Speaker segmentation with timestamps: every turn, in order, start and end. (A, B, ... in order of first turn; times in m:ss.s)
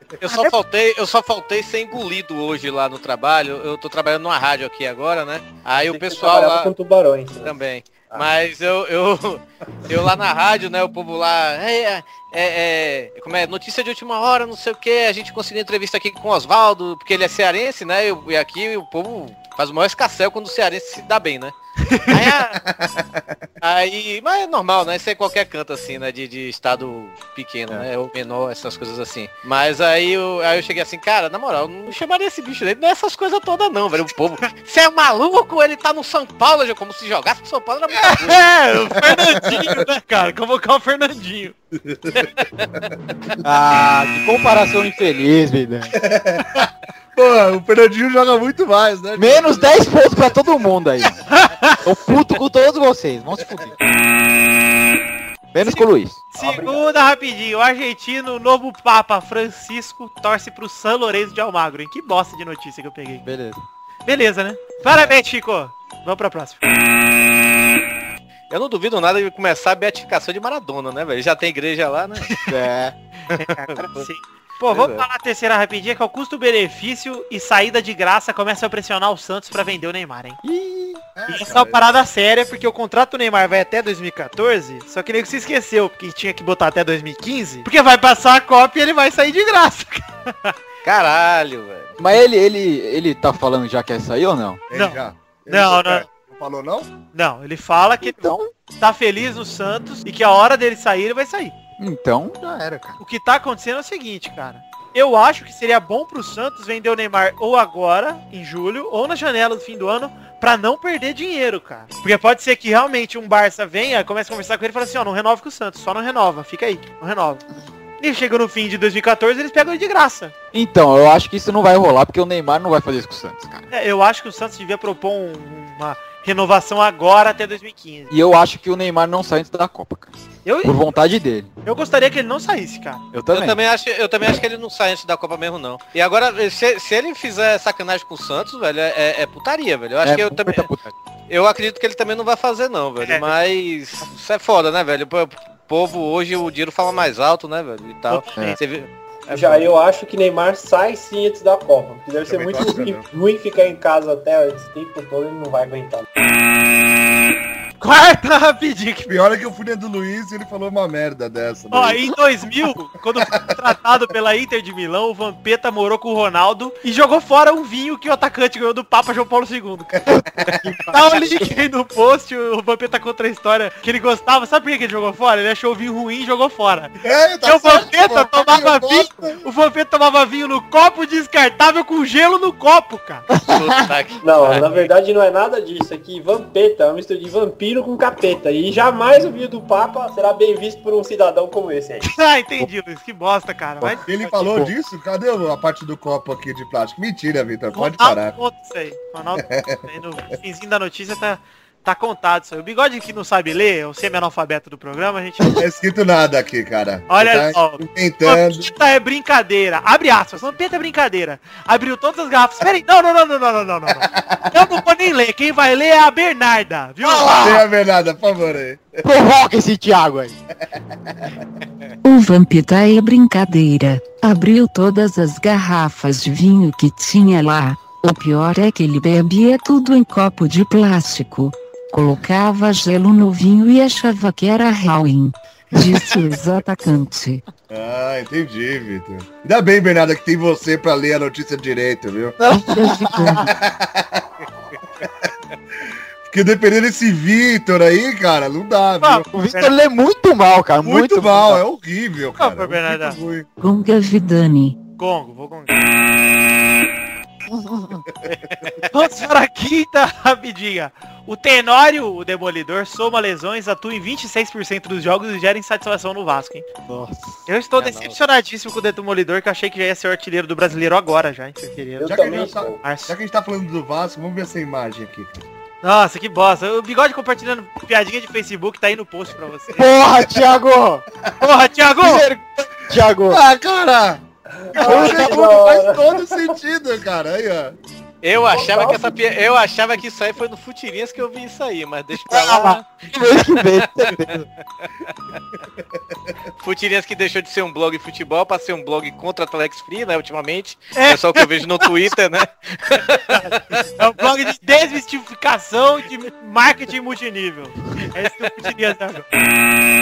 0:00.2-0:06.7 A
0:00.2-0:00.5 B
0:05.8-0:07.6 C
0:07.4-0:21.6 A
0:21.9-0:22.2 B
0:22.1-0:22.6 A
0:22.6-0:23.4 D
0:23.6-0:38.4 A
0:38.0-0:41.5 B
0:39.0-0:39.8 D
0:41.8-0:42.3 D
0:43.4-0:45.9 E
0:46.0-0:49.9 D
0:49.2-0:51.2 E
0:51.3-0:51.9 B
0:51.8-0:53.7 E
0:55.5-0:56.3 E
0:55.6-1:03.2 B
0:56.4-0:56.8 C
1:03.2-1:03.6 E
1:04.1-1:06.6 B
1:08.5-1:12.4 A
1:12.4-1:13.0 E
1:13.3-1:20.4 B
1:13.3-1:14.1 A
1:14.7-1:15.0 A
1:20.4-1:21.0 E
1:21.2-1:21.8 D
1:21.3-1:30.6 B
1:30.8-1:32.0 A
1:32.0-1:34.6 E
1:34.7-1:36.9 D
1:34.7-1:36.1 B
1:37.1-1:41.6 B
1:38.0-1:38.5 E
1:41.8-1:43.0 E
1:43.0-1:57.4 B
1:58.0-2:00.3 B
2:00.5-2:03.7 E
2:03.7-2:08.1 B
2:08.1-2:10.1 E
2:10.4-2:10.8 B
2:10.6-2:11.5 E
2:11.6-2:13.0 B
2:13.1-2:13.6 E
2:13.3-2:20.7 A
2:20.0-2:20.9 E
2:21.3-2:29.7 A
2:23.0-2:23.3 B
2:28.1-2:28.6 B
2:29.3-2:36.1 C
2:32.2-2:33.0 D
2:37.8-2:39.1 B
2:39.1-2:42.1 D
2:41.7-2:50.1 B
2:43.3-2:43.6 D
2:50.1-2:51.5 E
2:50.4-2:50.7 D
2:50.9-3:03.3 B
2:57.0-2:59.4 D
3:03.3-3:03.6 E
3:03.4-3:04.9 A
3:04.2-3:12.1 C
3:12.0-3:14.6 B
3:14.0-3:18.4 D
3:17.7-3:25.7 B
3:19.4-3:19.8 D
3:25.6-3:28.7 D
3:27.1-3:37.6 B
3:34.0-3:34.8 D
3:37.0-3:37.6 E
3:37.4-3:39.0 D
3:39.0-3:40.4 E
3:40.7-3:41.4 D
3:42.0-3:57.4 F
3:55.7-3:56.0 E
3:57.7-4:02.4 D
4:02.4-4:03.5 E
4:02.5-4:03.5 F
4:03.3-4:04.3 D
4:06.3-4:09.3 D
4:09.0-4:09.8 B
4:09.3-4:11.6 E
4:10.8-4:13.5 D
4:12.4-4:13.2 B
4:13.6-4:14.8 F
4:15.0-4:15.8 B
4:17.5-4:18.0 E
4:18.5-4:18.8 A
4:18.9-4:26.7 B
4:26.9-4:27.4 E
4:27.5-4:33.1 B
4:27.8-4:28.2 A
4:32.0-4:32.8 C
4:32.0-4:35.4 D
4:35.8-4:39.9 B
4:39.8-4:41.0 E
4:41.4-4:42.3 B
4:42.0-4:43.4 E
4:43.3-4:47.8 D
4:44.6-4:46.6 C
4:44.8-4:45.4 E
4:48.2-4:53.1 A
4:48.5-4:49.2 C
4:52.3-4:54.5 E
4:56.6-5:03.8 A
5:01.0-5:01.9 B
5:03.3-5:09.3 B